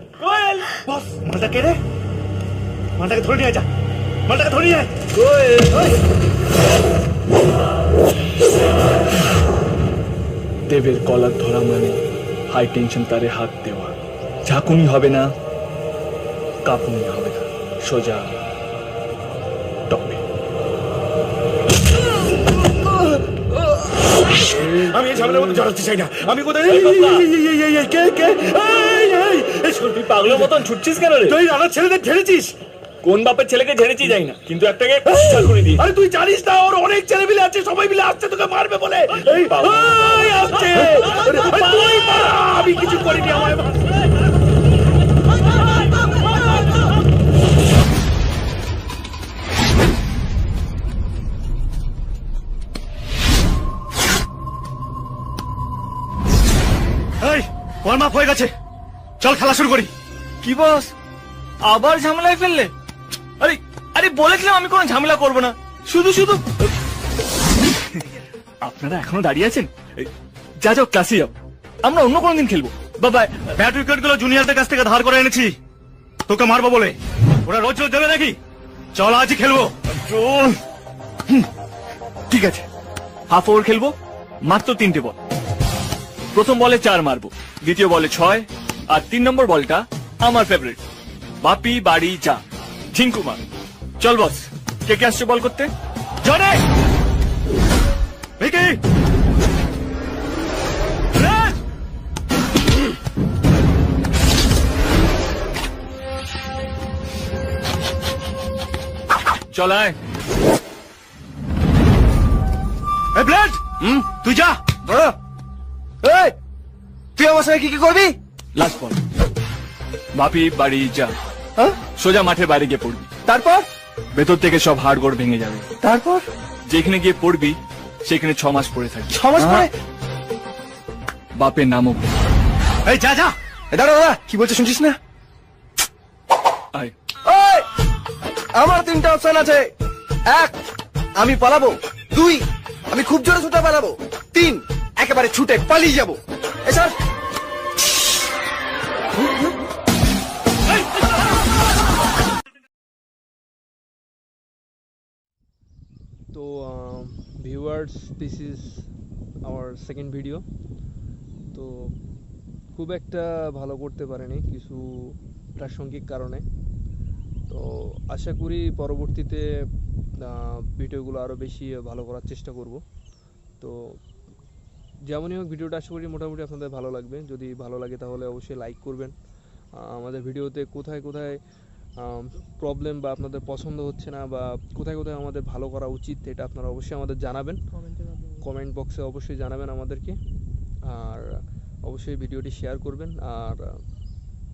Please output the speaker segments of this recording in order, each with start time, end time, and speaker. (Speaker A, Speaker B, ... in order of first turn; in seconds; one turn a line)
Speaker A: 0.2-0.8
Speaker B: 0.7-1.8
Speaker B: 3.0-3.7
Speaker B: 4.2-4.9
Speaker A: 5.1-5.9
Speaker A: 10.7-15.3
Speaker A: 16.6-18.4
Speaker A: 19.9-20.2
Speaker B: 24.8-27.3
Speaker A: 26.6-31.4
Speaker B: 31.3-32.5
Speaker A: 33.0-36.2
Speaker B: 35.8-38.2
Speaker A: 36.8-44.0
Speaker B: 38.8-39.6
Speaker B: 40.1-41.9
Speaker B: 57.2-58.5
Speaker B: 59.2-59.9
Speaker A: 60.4-60.9
Speaker A: 61.6-62.7
Speaker A: 63.4-66.5
Speaker A: 68.6-73.5
Speaker B: 73.5-75.5
Speaker B: 76.3-78.4
Speaker B: 78.9-79.8
Speaker B: 82.3-82.6
Speaker A: 83.3-85.2
Speaker A: 86.3-90.8
Speaker A: 91.4-93.4
Speaker A: 94.0-95.7
Speaker B: 96.2-96.6
Speaker B: 98.4-98.8
Speaker B: 101.2-101.5
Speaker A: 109.5-110.0
Speaker B: 113.1-114.7
Speaker C: 113.8-114.1
Speaker C: 114.7-115.2
Speaker C: 116.0-116.3
Speaker C: 117.2-118.1
Speaker A: 118.5-119.0
Speaker A: 120.1-121.1
Speaker A: 122.0-123.1
Speaker C: 123.2-123.7
Speaker A: 124.1-125.7
Speaker C: 125.8-126.3
Speaker A: 126.7-129.7
Speaker C: 129.1-129.7
Speaker A: 131.4-132.1
Speaker B: 132.8-133.3
Speaker C: 133.7-135.0
Speaker C: 137.2-137.7
Speaker C: 138.5-139.7
Speaker C: 140.2-140.6
Speaker C: 141.2-146.9
Speaker D: 156.3-158.9
Speaker D: 159.4-160.4
Speaker D: 161.5-162.0
Speaker D: 162.7-166.4
Speaker D: 167.5-169.7
Speaker D: 170.2-172.8
Speaker D: 173.6-174.0
Speaker D: 175.1-179.1
Speaker D: 179.8-181.4
Speaker D: 182.0-190.2
Speaker D: 190.8-193.8